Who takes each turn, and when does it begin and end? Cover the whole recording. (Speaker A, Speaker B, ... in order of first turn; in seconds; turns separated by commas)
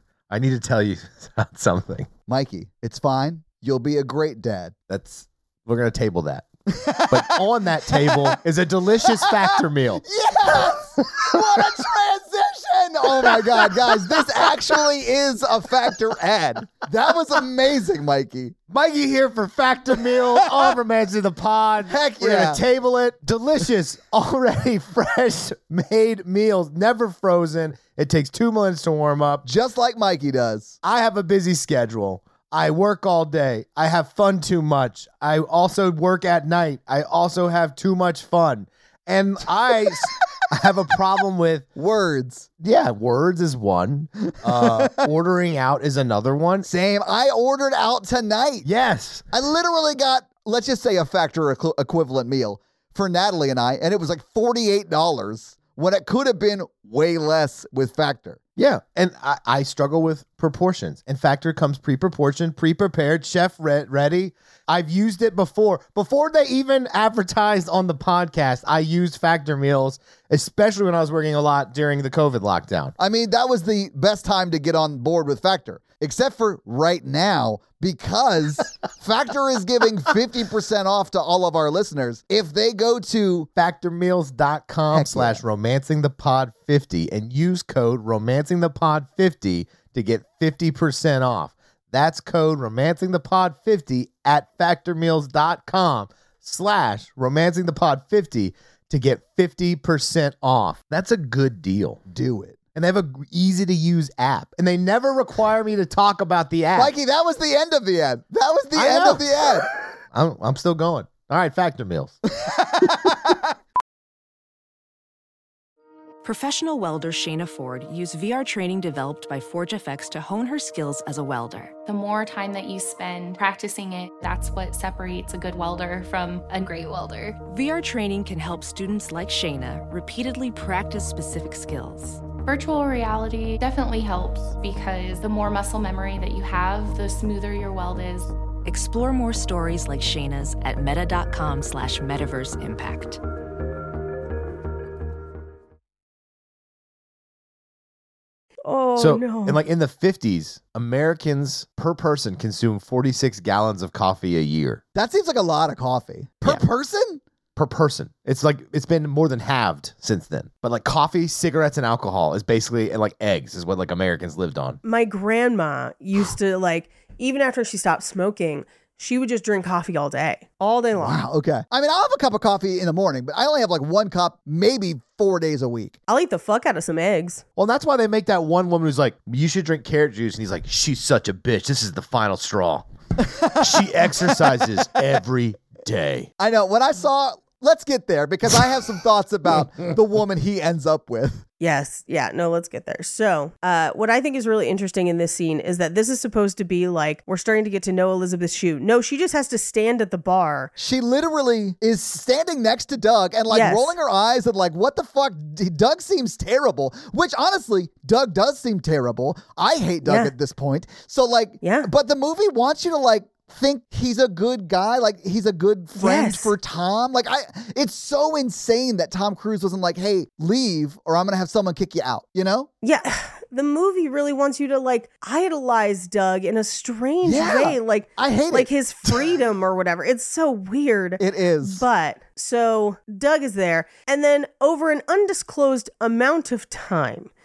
Speaker A: 0.3-2.1, Speaker B: 2.3-4.7, Speaker A: 4.9-10.0, Speaker B: 6.7-8.4, Speaker B: 9.0-18.6, Speaker A: 13.6-14.2, Speaker A: 18.7-29.4, Speaker B: 20.4-20.7, Speaker B: 21.9-22.6, Speaker B: 29.4-30.8, Speaker A: 30.8-41.6, Speaker B: 41.8-42.5, Speaker A: 42.6-46.7, Speaker B: 44.4-45.0, Speaker B: 46.6-48.7, Speaker A: 48.6-49.2, Speaker B: 49.3-58.4, Speaker A: 58.6-72.9, Speaker B: 73.0-83.5, Speaker A: 83.6-102.0, Speaker B: 84.9-85.4, Speaker B: 102.1-102.6, Speaker A: 102.7-106.9, Speaker B: 106.7-109.7, Speaker A: 108.7-112.2, Speaker B: 112.4-113.4, Speaker C: 116.2-121.7, Speaker D: 121.8-127.4, Speaker C: 127.4-132.2, Speaker D: 132.4-138.3, Speaker C: 138.6-143.2, Speaker E: 148.7-149.6, Speaker A: 149.0-154.8, Speaker B: 154.9-157.2, Speaker A: 157.6-164.8, Speaker E: 164.8-171.2, Speaker B: 171.0-175.9, Speaker E: 176.1-177.4, Speaker A: 177.6-182.8, Speaker B: 183.2-183.6, Speaker A: 183.5-186.3, Speaker B: 186.4-191.4, Speaker E: 191.6-200.7, Speaker B: 200.8-222.7, Speaker E: 203.5-203.9, Speaker E: 210.0-210.3, Speaker E: 211.6-211.9, Speaker E: 215.9-216.5, Speaker E: 222.8-237.3, Speaker B: 227.2-229.3, Speaker B: 231.2-231.8